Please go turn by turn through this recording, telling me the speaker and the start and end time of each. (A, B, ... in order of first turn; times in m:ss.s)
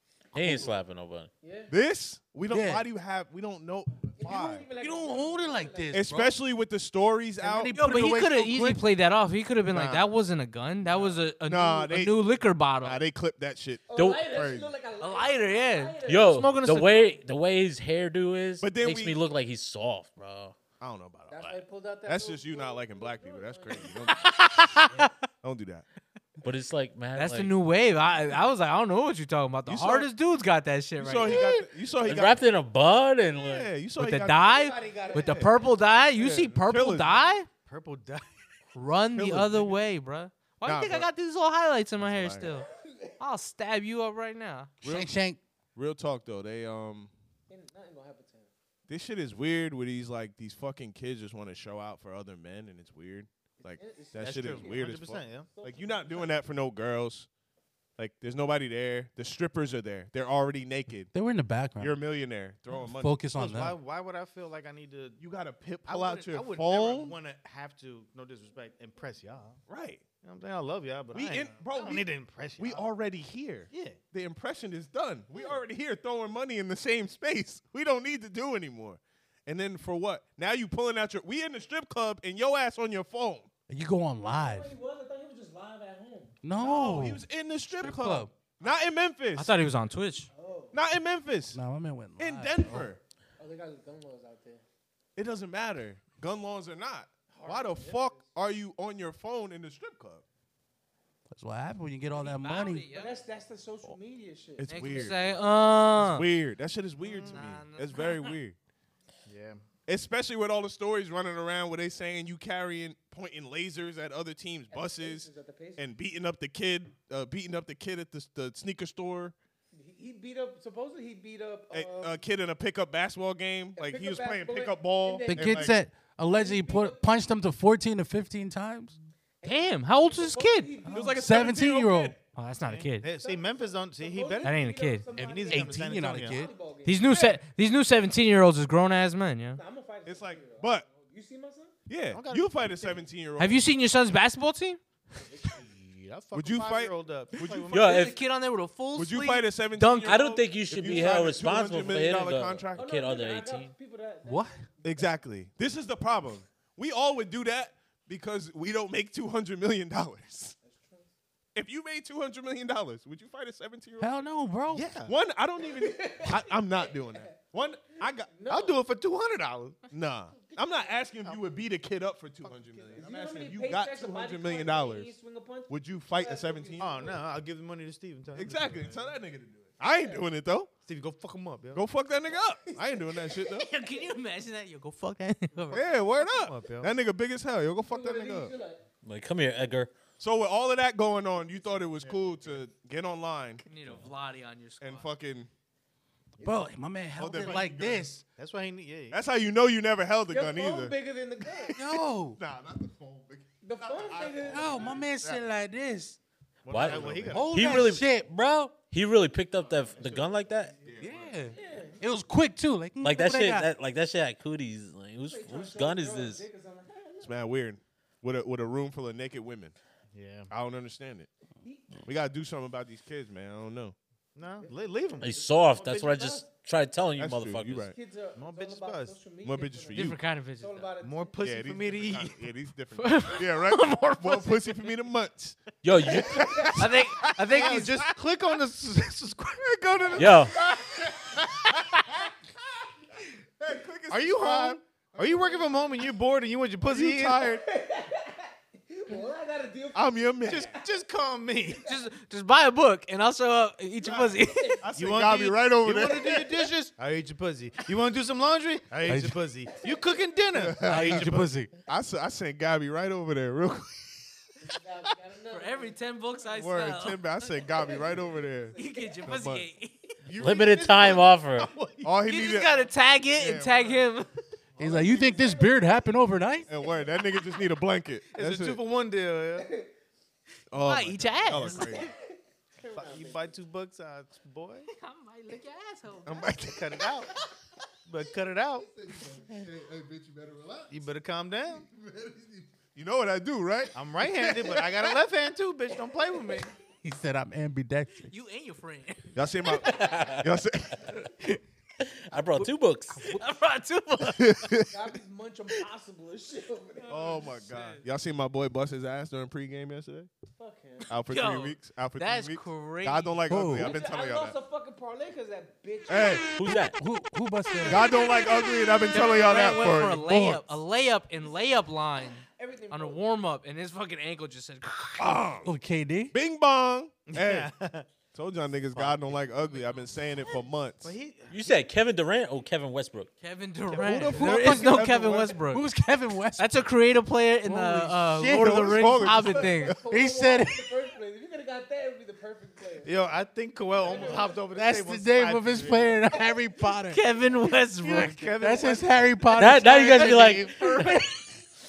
0:00.3-0:01.3 A
0:00.4-0:00.7 B
0:01.4-0:01.7 C
0:01.7-0:04.7 B
0:02.5-0:02.9 D
0:04.2-0:06.2 C
0:04.8-0:06.4 D
0:05.9-0:07.8 B
0:07.4-0:08.8 D
0:07.8-0:13.0 E
0:09.7-0:10.1 B
0:11.5-0:12.2 B
0:12.8-0:14.7 B
0:13.9-0:16.7 C
0:14.0-0:14.4 A
0:15.0-0:17.1 E
0:16.1-0:20.6 A
0:18.6-0:19.2 B
0:20.8-0:24.3 B
0:21.3-0:24.1 C
0:24.2-0:25.1 E
0:25.4-0:25.9 B
0:26.4-0:27.5 A
0:27.2-0:31.4 E
0:29.6-0:30.1 B
0:31.0-0:32.4 B
0:32.0-0:33.7 A
0:33.4-0:34.5 B
0:34.0-0:37.5 E
0:34.4-0:35.8 C
0:36.2-0:37.3 B
0:37.7-0:38.3 F
0:38.7-0:42.7 E
0:39.2-0:39.8 B
0:40.6-0:41.1 B
0:42.0-0:42.5 B
0:43.2-0:44.7 E
0:44.8-0:45.4 D
0:44.8-0:45.1 B
0:45.8-0:47.1 B
0:47.5-0:48.5 C
0:48.9-0:57.3 B
0:53.6-0:56.4 C
0:54.2-0:55.5 F
0:58.0-1:01.1 B
1:01.1-1:02.0 D
1:01.8-1:03.4 B
1:02.8-1:03.8 D
1:03.4-1:05.2 F
1:05.2-1:07.2 B
1:05.8-1:09.6 F
1:09.7-1:10.0 B
1:10.2-1:12.9 F
1:11.1-1:12.1 B
1:12.6-1:23.5 B
1:13.7-1:14.0 F
1:23.7-1:24.8 D
1:24.2-1:26.4 C
1:26.4-1:27.2 D
1:26.6-1:29.5 B
1:27.8-1:28.3 E
1:27.9-1:28.3 D
1:29.4-1:30.3 E
1:30.3-1:30.8 C
1:30.7-1:31.6 B
1:31.5-1:32.9 D
1:32.2-1:33.0 B
1:33.4-1:34.6 C
1:35.2-1:40.2 B
1:37.3-1:38.3 C
1:41.3-1:42.9 D
1:42.1-1:43.2 E
1:42.9-1:45.2 C
1:44.6-1:45.4 B
1:44.7-1:46.3 E
1:46.0-1:48.6 B
1:47.0-1:47.5 F
1:47.3-1:48.3 E
1:49.3-1:49.6 F
1:49.9-1:59.4 B
1:54.7-1:55.9 C
1:59.7-2:02.2 C
2:01.7-2:05.8 B
2:03.8-2:07.1 C
2:05.3-2:09.0 D
2:09.4-2:11.4 C
2:09.4-2:10.7 E
2:10.9-2:12.2 D
2:10.9-2:12.2 B
2:12.4-2:13.1 E
2:12.6-2:14.6 F
2:13.1-2:17.2 C
2:14.4-2:15.1 E
2:15.2-2:16.4 F
2:15.2-2:16.5 D
2:16.8-2:19.6 E
2:17.1-2:17.4 B
2:19.6-2:21.8 C
2:20.0-2:20.9 B
2:21.9-2:23.7 B
2:22.1-2:23.0 F
2:23.4-2:24.8 E
2:25.2-2:25.7 C
2:25.6-2:28.2 F
2:26.3-2:28.0 B
2:27.7-2:30.3 E
2:27.7-2:28.1 A
2:29.0-2:32.9 B
2:30.0-2:33.7 A
2:32.7-2:35.2 C
2:34.2-2:34.6 D
2:34.8-2:40.6 B
2:40.6-2:41.1 C
2:41.6-2:44.2 B
2:44.0-2:45.0 D
2:44.7-2:45.1 F
2:45.0-2:48.4 B
2:45.6-2:48.8 C
2:48.5-2:49.8 F
2:49.9-2:55.1 B
2:50.3-2:51.3 C
2:52.4-2:57.2 C
2:55.7-2:57.2 B
2:56.8-2:59.1 F
2:58.4-3:00.7 B
2:59.9-3:00.3 C
3:00.9-3:01.8 F
3:01.7-3:03.7 B
3:03.5-3:05.8 E
3:05.7-3:08.5 B
3:06.2-3:07.0 F
3:07.9-3:08.8 C
3:09.0-3:09.9 A
3:10.2-3:13.6 B
3:13.7-3:15.1 E
3:14.8-3:15.5 B
3:16.4-3:18.2 D
3:17.2-3:18.1 B
3:18.4-3:19.2 F
3:19.1-3:21.0 B
3:20.3-3:21.8 C
3:21.7-3:22.4 D
3:22.3-3:25.4 B
3:23.6-3:24.9 C
3:24.5-3:26.2 D
3:26.6-3:27.6 F
3:26.7-3:28.1 A
3:26.7-3:27.6 B
3:27.3-3:28.8 D
3:28.8-3:30.8 A
3:29.6-3:30.3 B
3:30.8-3:31.5 B
3:31.0-3:33.7 D
3:31.4-3:32.0 C
3:33.0-3:36.4 A
3:35.3-3:37.4 C
3:37.2-3:39.8 B
3:40.1-3:40.5 F
3:40.5-3:41.3 B
3:41.6-3:42.0 C
3:42.0-3:44.0 B
3:44.4-3:46.3 F
3:44.6-3:45.6 C
3:45.2-3:47.9 A
3:47.2-3:48.0 B
3:47.9-3:51.4 C
3:48.4-3:49.2 F
3:49.4-3:50.2 B
3:49.9-3:50.9 E
3:51.0-3:52.4 F
3:51.4-3:58.1 B
3:53.0-3:54.9 E
3:55.8-3:56.8 A
3:56.3-3:56.8 C
3:56.8-3:58.0 E
3:57.5-4:00.2 F
3:59.6-4:02.3 B
4:00.2-4:00.6 A
4:00.7-4:01.1 C
4:03.6-4:05.5 B
4:04.1-4:07.5 F
4:05.3-4:06.0 C
4:06.8-4:07.6 B
4:07.4-4:10.8 C
4:09.9-4:10.7 B
4:10.4-4:11.8 F
4:11.8-4:14.8 E
4:14.1-4:15.0 C
4:14.8-4:16.5 B
4:15.0-4:21.5 F
4:19.1-4:19.4 D
4:19.7-4:20.4 C
4:20.6-4:24.4 B
4:20.9-4:21.7 D
4:24.6-4:26.4 C
4:25.5-4:27.5 E
4:26.6-4:29.7 B
4:27.5-4:29.3 C
4:28.8-4:30.1 E
4:30.2-4:31.2 B
4:30.4-4:31.7 A
4:30.4-4:32.1 F
4:32.0-4:34.0 B
4:32.2-4:34.3 E
4:34.8-4:37.6 C
4:34.8-4:36.7 D
4:34.8-4:35.1 B
4:36.7-4:38.8 B
4:38.3-4:39.7 F
4:39.6-4:39.9 C
4:40.7-4:42.1 B
4:40.8-4:42.1 E
4:41.9-4:42.1 C
4:42.8-4:43.6 C
4:42.9-4:44.9 F
4:44.9-4:46.6 E
4:46.3-4:47.1 B
4:46.6-4:47.3 F
4:48.1-4:48.9 F
4:48.8-4:50.9 B
4:50.9-4:51.9 F
4:51.9-4:55.1 B
4:53.9-4:56.7 F
4:57.0-4:58.3 D
4:58.3-5:00.0 E
4:59.3-5:01.3 B
4:59.8-5:00.5 A
5:02.0-5:03.3 A
5:02.6-5:04.8 E
5:04.4-5:04.9 B
5:04.9-5:07.4 C
5:07.1-5:08.0 E
5:07.1-5:10.3 B
5:10.6-5:11.1 C
5:11.1-5:14.6 B
5:11.3-5:13.4 E
5:13.5-5:14.0 D
5:13.8-5:16.8 C
5:16.1-5:16.5 B
5:16.5-5:17.0 A
5:17.0-5:18.1 D
5:17.8-5:20.7 B
5:19.1-5:25.4 E
5:22.4-5:23.2 C
5:25.2-5:25.8 B
5:25.6-5:26.3 D
5:26.3-5:27.7 B
5:27.3-5:28.1 F
5:28.3-5:31.1 B
5:28.9-5:29.4 F
5:31.0-5:31.6 F
5:31.5-5:33.3 A
5:33.4-5:35.9 E
5:33.9-5:35.6 B
5:34.3-5:36.8 D
5:36.6-5:39.9 E
5:37.6-5:39.0 D
5:38.5-5:40.1 B
5:39.0-5:43.2 C
5:40.1-5:40.9 D
5:43.0-5:46.2 F
5:43.9-5:44.7 C
5:44.7-5:47.3 D
5:47.1-5:48.5 E
5:48.0-5:49.3 F
5:48.6-5:51.4 D
5:49.5-5:51.1 A